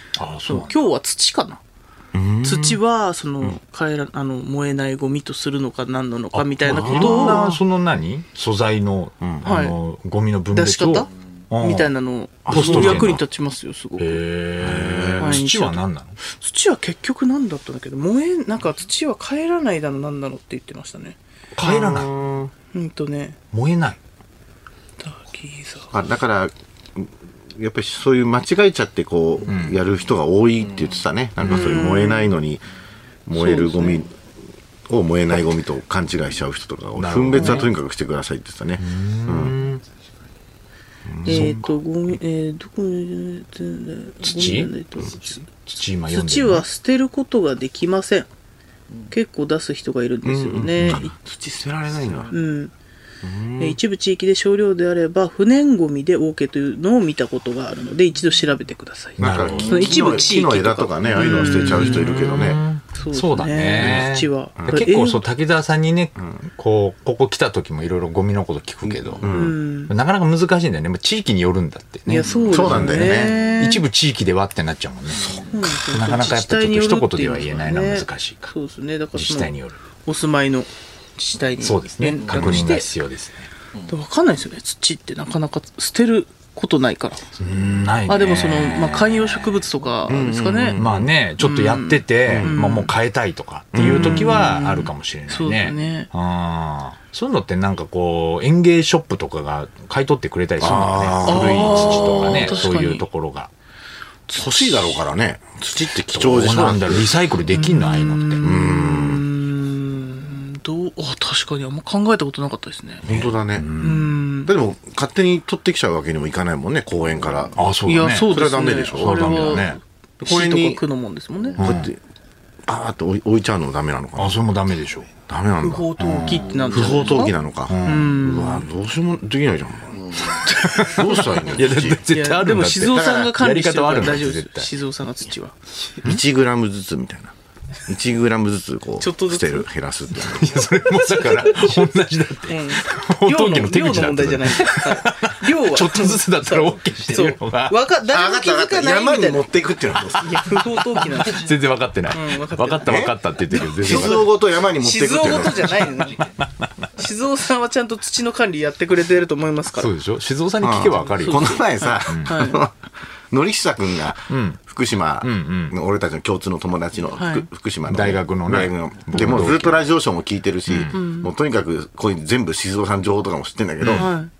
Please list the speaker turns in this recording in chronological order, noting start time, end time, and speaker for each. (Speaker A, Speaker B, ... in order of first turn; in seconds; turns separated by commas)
Speaker A: 0.1-0.7, Speaker B: 0.5-1.6, Speaker C: 2.1-2.8, Speaker B: 2.4-7.6, Speaker A: 6.3-11.9, Speaker C: 6.6-7.4, Speaker B: 9.4-9.8, Speaker B: 10.5-14.2, Speaker C: 12.4-13.2, Speaker A: 12.5-13.2, Speaker A: 14.0-16.2, Speaker C: 14.6-15.4, Speaker B: 15.2-21.2, Speaker A: 21.6-22.1, Speaker C: 21.6-22.5, Speaker B: 22.7-23.4, Speaker A: 23.5-24.0, Speaker B: 25.0-25.9, Speaker C: 25.9-32.6, Speaker A: 29.4-29.8, Speaker B: 31.4-32.3, Speaker C: 33.2-34.1, Speaker B: 33.3-34.1, Speaker C: 34.9-39.6, Speaker A: 37.0-37.7, Speaker B: 37.4-37.6, Speaker A: 38.8-39.8, Speaker C: 41.1-41.7, Speaker B: 41.2-45.5, Speaker A: 44.2-44.7, Speaker A: 45.6-46.6, Speaker B: 46.1-48.3, Speaker B: 49.1-51.1, Speaker C: 50.2-52.3, Speaker B: 52.3-52.7, Speaker C: 53.2-53.8, Speaker B: 53.6-65.2, Speaker A: 59.2-60.0, Speaker C: 59.2-62.6, Speaker A: 61.2-78.5, Speaker C: 63.8-64.0, Speaker C: 64.6-64.9, Speaker C: 68.8-69.6, Speaker B: 69.2-69.9, Speaker B: 72.1-73.8, Speaker C: 72.5-73.4, Speaker C: 75.2-75.5, Speaker B: 75.5-79.5, Speaker A: 79.1-79.8, Speaker B: 80.0-82.9, Speaker A: 81.6-83.5, Speaker B: 83.8-87.2, Speaker A: 87.4-89.6, Speaker B: 88.1-90.8, Speaker C: 90.1-91.1, Speaker A: 90.8-103.5, Speaker B: 91.4-92.9, Speaker C: 92.3-92.5, Speaker C: 93.7-94.5, Speaker B: 93.8-96.1, Speaker C: 100.6-102.7, Speaker B: 101.2-103.0, Speaker C: 104.3-107.2, Speaker A: 106.1-108.6, Speaker B: 107.5-113.1, Speaker C: 108.4-109.2, Speaker C: 113.0-113.8, Speaker A: 113.1-114.1, Speaker B: 113.8-114.5, Speaker C: 114.4-119.6, Speaker A: 117.5-118.3, Speaker B: 117.9-121.6, Speaker A: 119.0-119.8, Speaker C: 120.2-120.8, Speaker C: 121.6-122.0, Speaker A: 121.6-121.9, Speaker C: 122.7-124.4, Speaker A: 124.2-125.1, Speaker C: 125.3-132.0, Speaker B: 125.6-127.3, Speaker A: 126.0-126.4, Speaker A: 127.7-128.2, Speaker B: 127.8-128.7, Speaker A: 130.4-134.7, Speaker B: 132.1-135.5, Speaker C: 132.8-133.3, Speaker C: 136.0-137.3, Speaker C: 137.9-140.6, Speaker B: 139.0-139.7, Speaker A: 140.2-147.8, Speaker B: 141.2-141.8, Speaker B: 142.5-149.4, Speaker C: 148.1-150.6, Speaker B: 150.1-151.6, Speaker A: 151.2-154.2, Speaker B: 152.1-156.3, Speaker C: 152.8-153.2, Speaker C: 153.7-155.9, Speaker A: 156.4-156.6, Speaker B: 156.9-159.9, Speaker A: 159.8-162.3, Speaker C: 160.6-162.8, Speaker B: 161.1-162.6, Speaker C: 163.3-174.1, Speaker A: 164.3-164.6, Speaker A: 165.2-165.7, Speaker B: 167.1-167.5, Speaker A: 167.9-169.8, Speaker A: 170.7-171.0, Speaker B: 170.9-171.3, Speaker A: 173.8-174.1, Speaker B: 173.9-174.3